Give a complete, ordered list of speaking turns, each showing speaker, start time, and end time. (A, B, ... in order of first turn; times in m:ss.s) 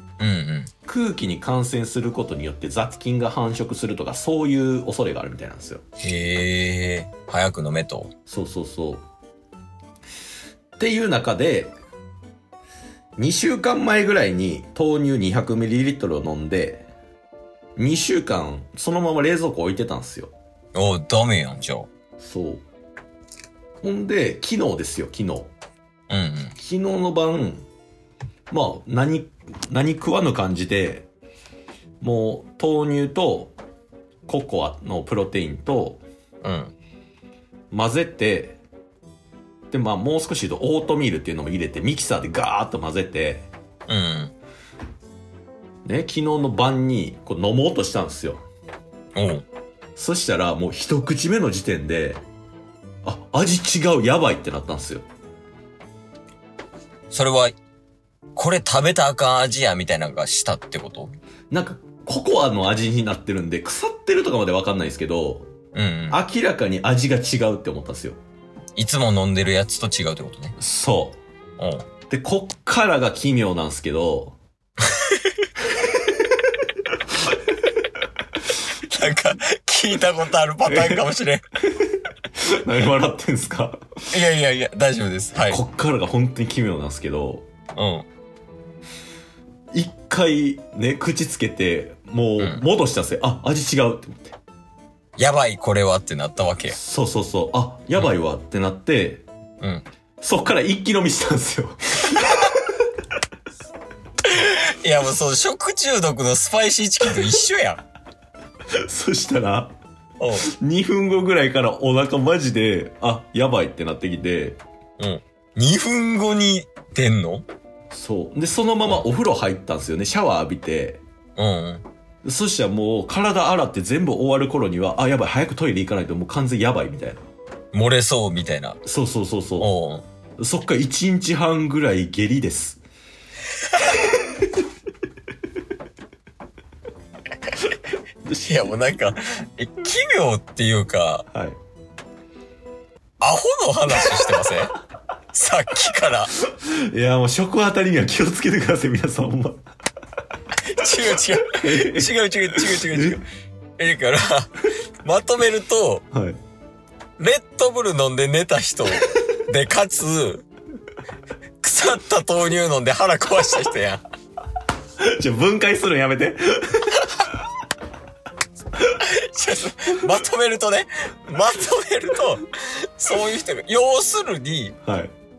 0:00.2-0:00.7 A
0:00.8-0:05.8 B
0:06.0-0:08.1 A
0:08.3-0:09.0 B
0:10.8-0:11.7 B
0:13.2-0:16.9 B
0:17.8-0:20.3 B
0:20.7-0:21.9 A
0:22.2-0:22.6 B
0:23.8-0:25.5 B
0:26.1-0:26.5 A
0:26.6-0:27.6 B
0:28.5-0:31.1 B
0:32.0-0:33.6 B
0:34.3-0:36.0 B
0:36.4-0:36.7 A
0:37.7-0:38.6 B
0:39.7-0:43.5 B
0:43.9-0:44.3 A
0:45.8-0:48.4 B
0:49.1-0:49.4 A
0:50.0-0:52.2 B
0:53.0-0:55.0 B
0:57.1-0:57.6 A
0:58.3-1:01.1 A
1:01.5-1:05.5 B
1:05.7-1:06.2 A
1:06.1-1:08.2 B
1:08.8-1:10.5 A
1:10.6-1:11.2 B
1:11.6-1:11.9 A
1:12.1-1:14.4 B
1:15.0-1:15.5 A
1:18.8-1:21.4 A
1:20.7-1:21.1 B
1:21.7-1:23.9 B
1:24.1-1:25.6 A
1:25.4-1:27.4 B
1:27.8-1:28.0 A
1:29.7-1:34.4 B
1:35.2-1:36.8 A
1:36.7-1:39.2 B
1:40.2-1:42.6 B
1:44.2-1:47.8 A
1:48.7-1:49.7 B
1:50.2-1:50.5 A
1:50.5-1:54.6 B
1:55.0-1:57.5 A
1:57.9-2:01.0 B
2:01.4-2:01.8 A
2:02.2-2:07.2 B
2:07.7-2:08.8 A
2:08.8-2:09.7 B
2:09.6-2:10.0 A
2:10.4-2:12.8 B
2:18.3-2:21.2 A
2:21.3-2:21.6 B
2:23.2-2:24.8 A
2:25.3-2:26.3 A
2:26.5-2:29.6 B
2:30.6-2:33.2 A
2:31.6-2:33.2 B
2:33.8-2:36.0 A
2:36.1-2:36.4 B
2:37.2-2:40.4 A
2:41.6-2:44.0 A
2:45.0-2:47.1 B
2:49.0-2:54.8 A
2:54.8-2:55.1 B